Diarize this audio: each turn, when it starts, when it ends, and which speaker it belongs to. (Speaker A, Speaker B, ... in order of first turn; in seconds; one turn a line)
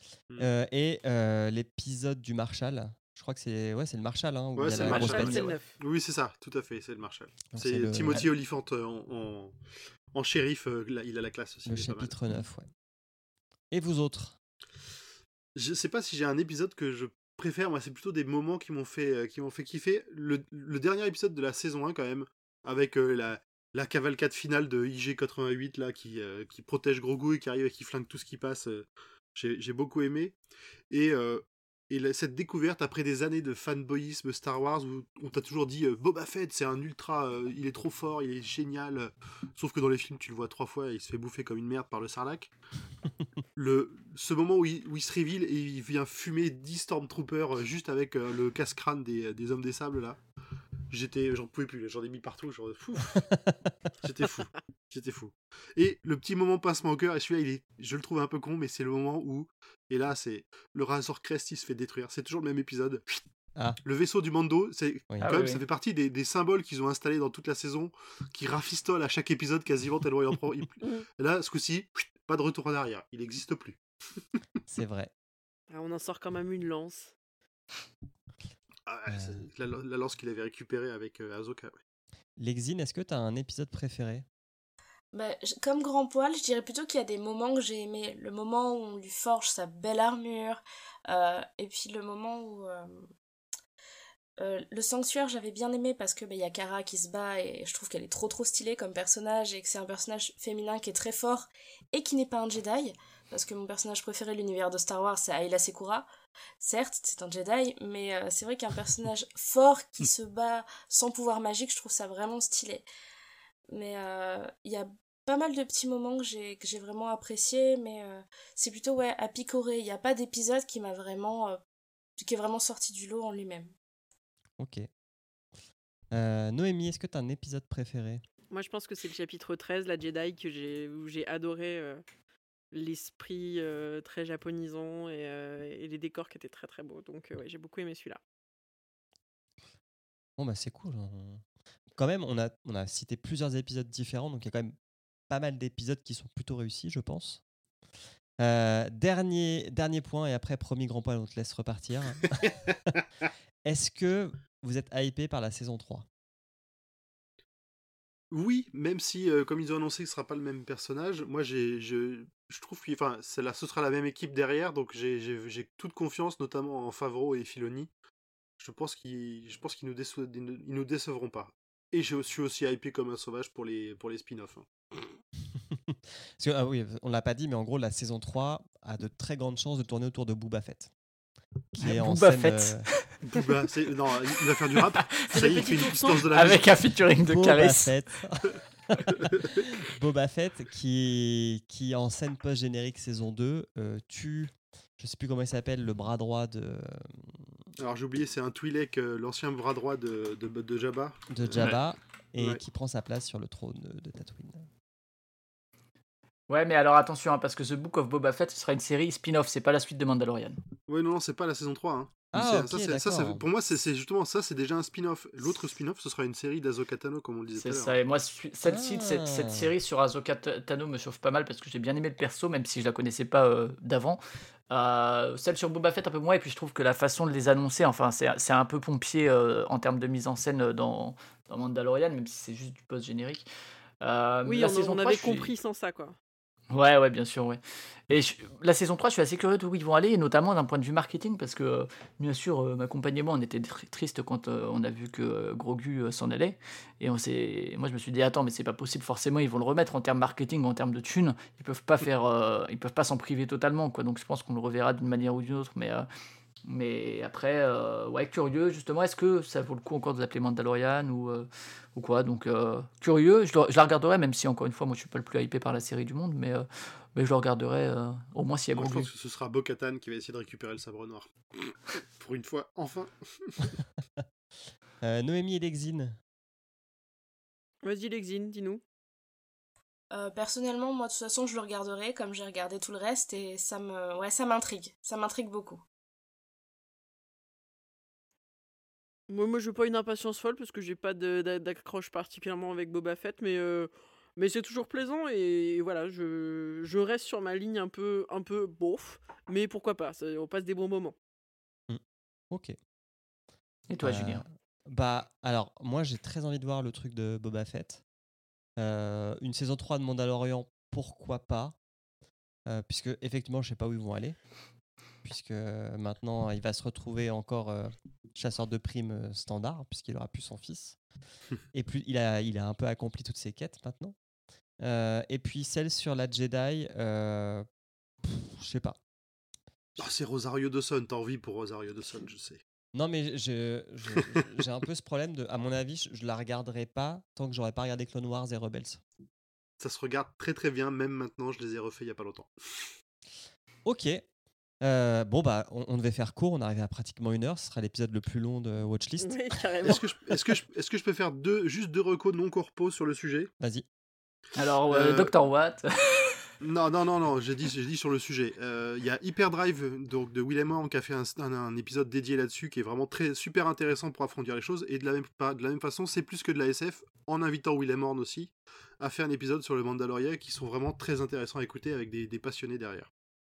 Speaker A: 0.4-5.5
Speaker B: 4.5-9.6
Speaker C: 4.7-5.8
Speaker A: 7.5-8.2
Speaker B: 10.1-12.1
Speaker A: 11.7-12.7
Speaker A: 13.7-14.4
Speaker B: 15.6-30.4
Speaker B: 30.9-42.5
Speaker B: 43.5-50.2
Speaker B: 50.9-53.2
Speaker A: 53.1-53.7
Speaker B: 54.0-63.2
Speaker B: 63.8-73.8
Speaker D: 65.2-65.6
Speaker A: 74.7-75.1
Speaker C: 75.7-77.1
Speaker B: 78.9-81.8
Speaker A: 79.1-79.5
Speaker A: 82.4-84.2
Speaker E: 85.1-93.1
Speaker E: 94.4-106.0
Speaker E: 106.6-112.8
Speaker E: 113.7-121.6
Speaker E: 122.2-123.7
Speaker A: 124.6-124.9
Speaker A: 126.1-128.2
Speaker C: 128.5-132.0
Speaker C: 132.7-138.2
Speaker A: 140.4-141.4
Speaker A: 141.9-144.7
Speaker A: 145.3-147.4
Speaker A: 148.4-152.9
Speaker A: 153.6-156.1
Speaker B: 158.3-167.9
Speaker B: 168.6-175.1
Speaker A: 175.6-180.9
Speaker A: 181.7-182.9
Speaker D: 181.8-183.0
Speaker B: 183.2-186.7
Speaker C: 185.2-186.3
Speaker D: 186.3-188.0
Speaker A: 187.3-188.5
Speaker B: 189.2-189.7
Speaker A: 189.2-197.6
Speaker B: 197.8-201.8
Speaker A: 201.3-204.7
Speaker D: 206.5-210.6
Speaker B: 210.9-218.0
Speaker A: 212.3-213.4
Speaker D: 217.5-233.4
Speaker A: 218.6-219.7
Speaker D: 234.0-235.5
Speaker C: 234.4-236.2
Speaker D: 236.7-256.1
Speaker D: 256.7-269.1
Speaker B: 268.7-273.8
Speaker A: 275.0-276.2
Speaker C: 277.8-278.8
Speaker E: 280.1-285.8
Speaker C: 289.3-301.1
Speaker A: 301.9-302.8
Speaker D: 303.9-304.4
Speaker A: 304.0-308.0
Speaker A: 308.8-311.8
Speaker A: 312.7-314.4
Speaker A: 315.2-321.0
Speaker A: 321.7-324.1
Speaker A: 324.8-327.7
Speaker A: 328.2-329.0
Speaker B: 330.0-332.6
Speaker A: 332.9-339.0
Speaker B: 339.8-342.9
Speaker A: 343.8-344.3
Speaker A: 344.8-349.9
Speaker C: 349.2-350.1
Speaker B: 349.8-353.5
Speaker A: 353.6-353.8
Speaker D: 354.6-356.4
Speaker B: 354.9-355.3
Speaker B: 356.6-373.1